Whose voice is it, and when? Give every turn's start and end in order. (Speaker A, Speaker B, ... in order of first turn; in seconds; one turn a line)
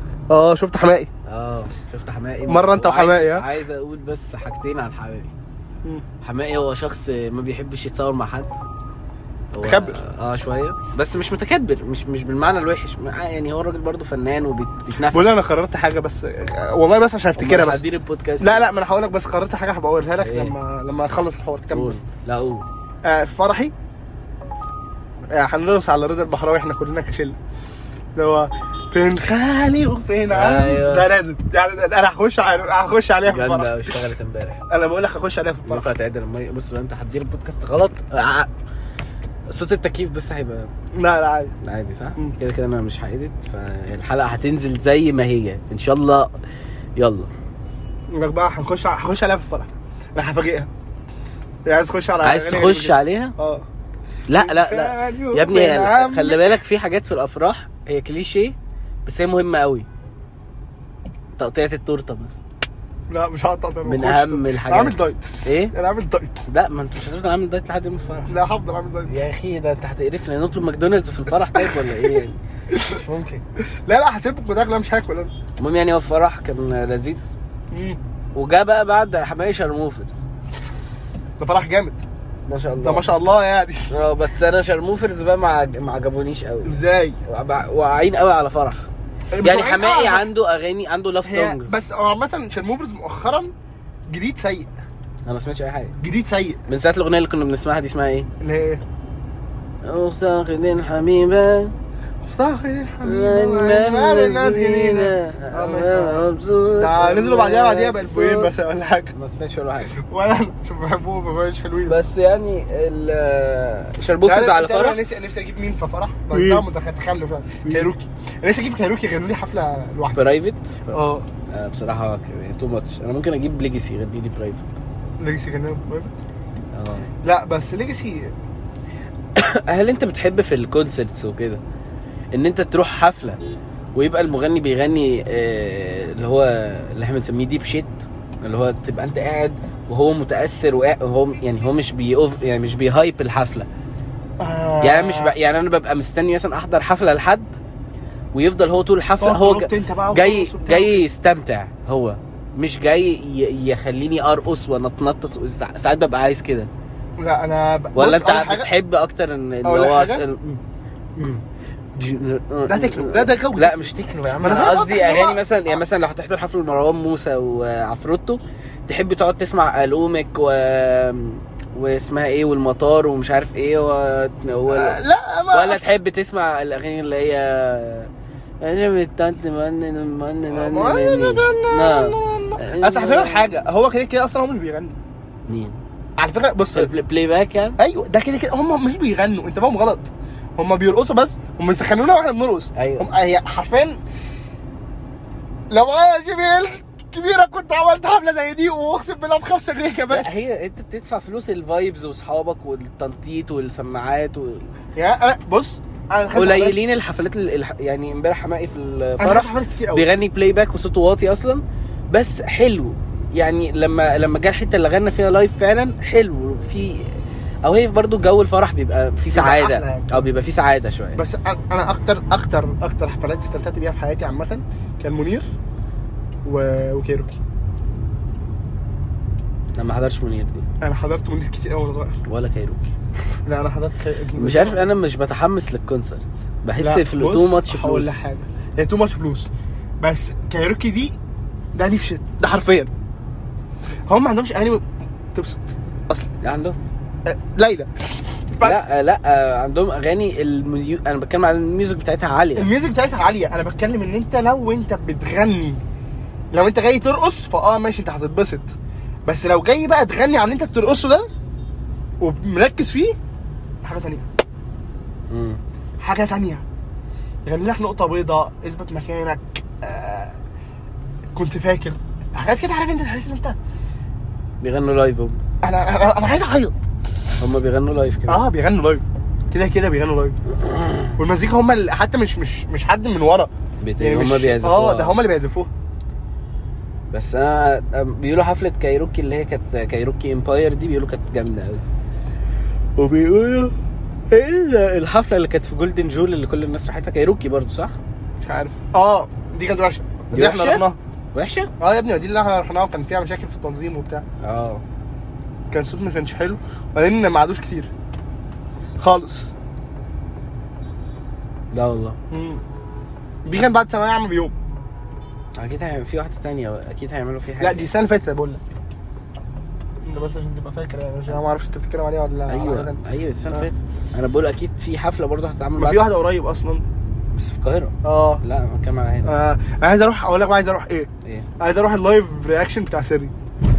Speaker A: 0.3-1.1
Speaker B: 1.3-5.3
Speaker A: 2.5-3.5
Speaker B: 6.2-8.6
Speaker B: 9.5-15.3
Speaker A: 9.6-10.0
Speaker A: 15.1-17.8
Speaker B: 17.4-18.7
Speaker A: 18.4-22.0
Speaker B: 20.2-20.6
Speaker B: 21.7-22.7
Speaker A: 23.0-23.7
Speaker A: 25.3-27.4
Speaker A: 28.2-34.0
Speaker B: 30.3-31.1
Speaker B: 33.3-34.6
Speaker A: 34.7-35.9
Speaker B: 35.7-38.5
Speaker B: 39.5-40.7
Speaker A: 40.9-41.5
Speaker B: 41.6-46.3
Speaker B: 47.0-47.3
Speaker A: 48.1-50.7
Speaker A: 51.7-53.7
Speaker B: 52.2-53.4
Speaker B: 54.3-59.9
Speaker A: 54.3-56.6
Speaker B: 61.4-62.4
Speaker A: 63.1-66.4
Speaker B: 63.9-65.7
Speaker B: 66.5-68.4
Speaker A: 68.3-69.2
Speaker B: 69.1-73.4
Speaker A: 71.5-71.9
Speaker A: 72.7-73.0
Speaker A: 73.9-75.3
Speaker B: 75.6-77.3
Speaker A: 77.7-78.0
Speaker B: 78.3-80.2
Speaker A: 81.4-82.0
Speaker B: 82.5-83.1
Speaker A: 82.8-83.9
Speaker B: 83.9-88.9
Speaker A: 86.7-87.2
Speaker A: 89.3-90.3
Speaker B: 89.4-91.8
Speaker A: 91.2-93.5
Speaker A: 94.1-94.7
Speaker B: 95.3-96.0
Speaker A: 96.0-96.6
Speaker B: 96.7-98.3
Speaker A: 98.4-98.8
Speaker B: 99.8-101.7
Speaker A: 102.2-109.1
Speaker B: 103.0-108.5
Speaker B: 109.1-110.0
Speaker A: 110.0-112.0
Speaker B: 111.9-115.0
Speaker A: 114.2-120.2
Speaker B: 116.3-116.7
Speaker B: 117.6-117.9
Speaker B: 120.1-124.8
Speaker A: 120.9-121.3
Speaker A: 125.2-126.2
Speaker B: 126.7-127.1
Speaker A: 127.2-128.3
Speaker B: 129.3-131.6
Speaker B: 132.3-133.4
Speaker B: 133.9-143.7
Speaker A: 144.4-145.3
Speaker B: 144.8-147.5
Speaker B: 148.3-156.7
Speaker A: 149.2-151.1
Speaker A: 157.2-158.7
Speaker B: 157.9-160.6
Speaker A: 159.6-160.2
Speaker B: 161.2-161.4
Speaker B: 161.9-178.1
Speaker A: 162.7-163.8
Speaker A: 164.4-165.8
Speaker A: 174.7-175.9
Speaker B: 178.6-183.6
Speaker A: 180.5-185.0
Speaker B: 185.5-185.8
Speaker A: 186.2-186.9
Speaker B: 186.7-187.8
Speaker A: 187.8-194.0
Speaker B: 192.8-193.1
Speaker A: 195.7-200.3
Speaker B: 200.1-204.7
Speaker A: 204.9-206.8
Speaker B: 206.3-217.1
Speaker A: 209.2-210.1
Speaker B: 217.7-221.2
Speaker A: 219.3-220.2
Speaker A: 221.2-225.5
Speaker A: 226.4-227.4
Speaker B: 229.8-230.7
Speaker A: 230.8-232.2
Speaker B: 232.2-232.9
Speaker A: 233.5-234.9
Speaker B: 234.4-238.2
Speaker A: 236.8-239.5
Speaker A: 240.0-241.2
Speaker A: 241.8-242.9
Speaker A: 244.1-246.3
Speaker B: 246.4-246.8
Speaker A: 247.3-247.9
Speaker A: 248.5-248.9
Speaker B: 248.6-252.7
Speaker A: 252.6-255.8
Speaker A: 256.5-258.7
Speaker A: 259.3-261.3
Speaker A: 262.2-263.2
Speaker A: 263.8-264.3
Speaker B: 265.3-265.6
Speaker A: 266.0-266.6
Speaker A: 267.4-270.4
Speaker A: 271.4-273.6
Speaker B: 274.6-275.4
Speaker A: 275.6-276.8
Speaker B: 277.4-278.5
Speaker A: 278.3-280.4
Speaker B: 280.6-281.2
Speaker A: 281.2-285.7
Speaker B: 283.8-285.2
Speaker B: 287.1-291.8
Speaker B: 293.0-293.7
Speaker B: 294.3-298.0
Speaker A: 298.4-301.0
Speaker B: 300.3-301.7
Speaker A: 301.8-304.3
Speaker B: 304.4-304.8
Speaker A: 305.7-307.9
Speaker A: 309.0-309.5
Speaker B: 311.7-312.2
Speaker A: 312.3-312.6
Speaker A: 313.4-314.6
Speaker B: 315.6-317.9
Speaker A: 317.6-318.6
Speaker A: 320.0-323.0
Speaker B: 322.5-326.1
Speaker A: 325.8-326.9
Speaker B: 327.3-329.4
Speaker A: 328.0-328.4
Speaker A: 329.3-333.3